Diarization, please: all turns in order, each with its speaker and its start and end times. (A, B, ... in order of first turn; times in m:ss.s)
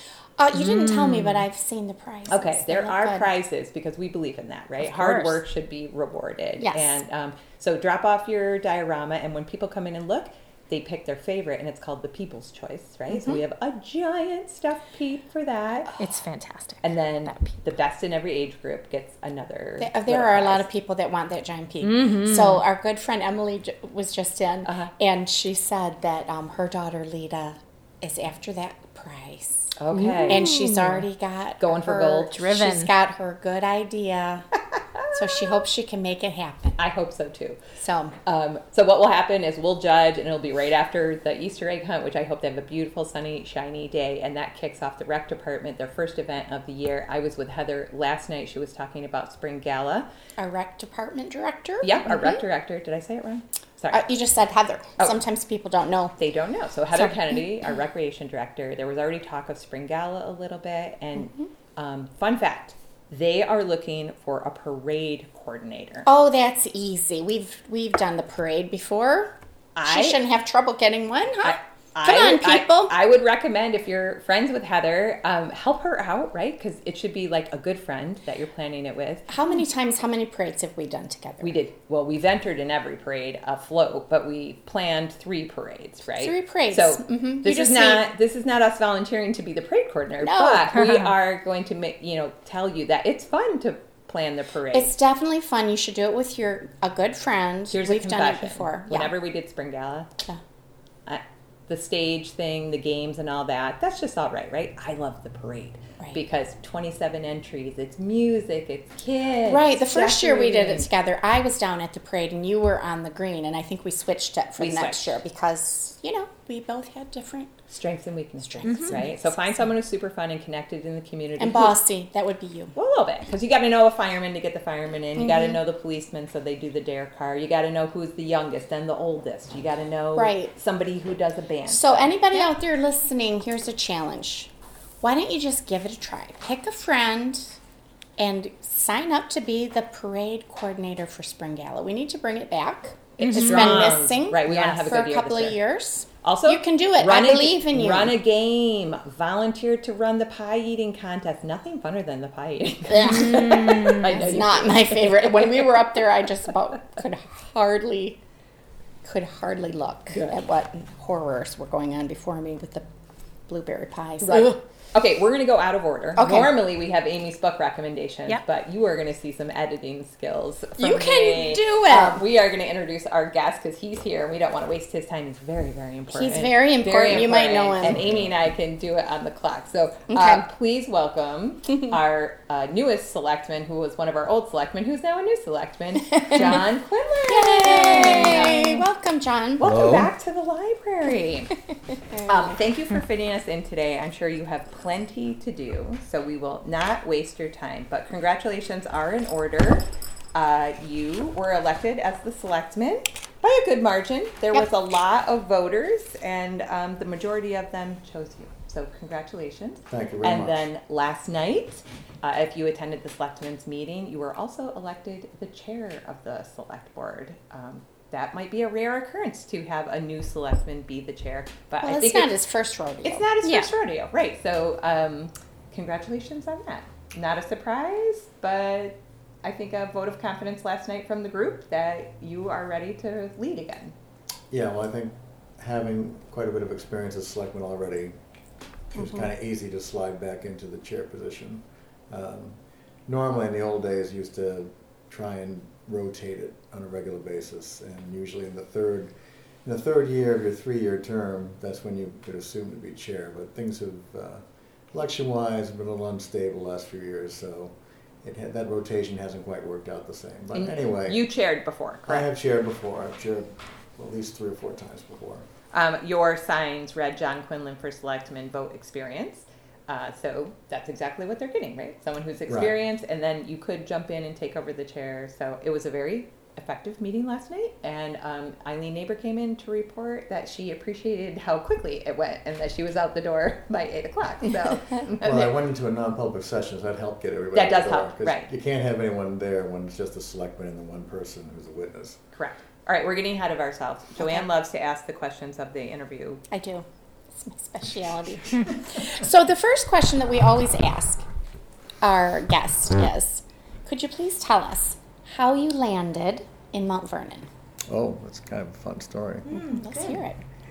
0:00.4-0:03.3 A
0:00.5-0:01.5 B
0:02.3-0:15.9 C
0:04.8-0:05.4 B
0:06.6-0:07.0 A
0:13.1-0:13.4 A
0:15.9-0:16.2 A
0:16.0-0:17.5 B
0:16.8-0:20.6 C
0:19.8-0:29.7 A
0:21.8-0:22.6 B
0:24.6-0:24.9 C
0:29.8-0:30.6 C
0:29.9-0:31.1 B
0:30.3-0:34.5 A
0:31.6-0:32.4 C
0:32.3-0:32.9 B
0:34.8-0:35.6 C
0:35.1-0:36.8 A
0:36.8-0:37.6 C
0:37.8-0:38.2 A
0:38.2-0:50.1 C
0:50.4-0:52.4 A
0:51.8-0:54.0 C
0:53.9-0:56.2 A
0:56.2-1:06.1 C
0:57.0-0:57.4 A
1:01.2-1:01.5 A
1:06.1-1:12.9 A
1:09.8-1:10.2 C
1:11.4-1:19.3 C
1:19.3-1:21.6 A
1:21.4-1:34.9 C
1:26.2-1:28.1 A
1:30.2-1:30.8 A
1:30.8-1:31.1 B
1:34.7-1:39.1 A
1:37.7-1:40.1 C
1:41.1-1:50.9 C
1:49.4-1:57.6 A
1:54.6-1:55.2 C
1:57.7-2:01.8 C
1:58.4-1:59.6 A
1:58.6-1:59.0 B
2:01.4-2:02.8 A
2:02.8-2:12.4 C
2:05.2-2:05.6 A
2:10.2-2:10.5 A
2:11.7-2:17.6 A
2:18.2-2:28.1 A
2:23.2-2:25.6 C
2:23.2-2:24.8 B
2:26.2-2:35.8 C
2:32.9-2:38.2 A
2:33.0-2:34.4 B
2:39.0-2:42.9 A
2:43.5-2:44.6 A
2:44.2-3:08.8 C
2:46.2-2:46.5 A
2:50.8-2:52.2 A
2:56.1-2:58.0 A
2:57.9-2:58.2 D
3:00.1-3:00.4 A
3:06.2-3:06.6 A
3:07.3-3:09.7 A
3:07.8-3:08.7 B
3:09.6-3:11.6 C
3:09.6-3:10.1 D
3:12.1-3:12.5 A
3:12.2-3:42.4 C
3:29.9-3:30.6 D
3:41.8-3:43.3 A
3:43.0-3:54.0 C
3:43.4-3:43.7 B
3:54.5-3:58.2 D
3:58.9-4:09.1 D
3:59.0-3:59.2 A
4:09.6-4:21.2 D
4:20.5-4:22.3 C
4:22.1-4:25.4 D
4:25.7-4:45.5 C
4:45.2-4:52.2 D
4:47.5-4:48.5 C
4:52.3-4:56.4 C
4:54.2-4:54.5 A
4:56.5-5:01.2 A
5:02.0-5:07.5 A
5:07.9-5:09.5 D
5:09.5-5:09.8 B
5:09.5-5:10.2 C
5:09.6-5:10.4 A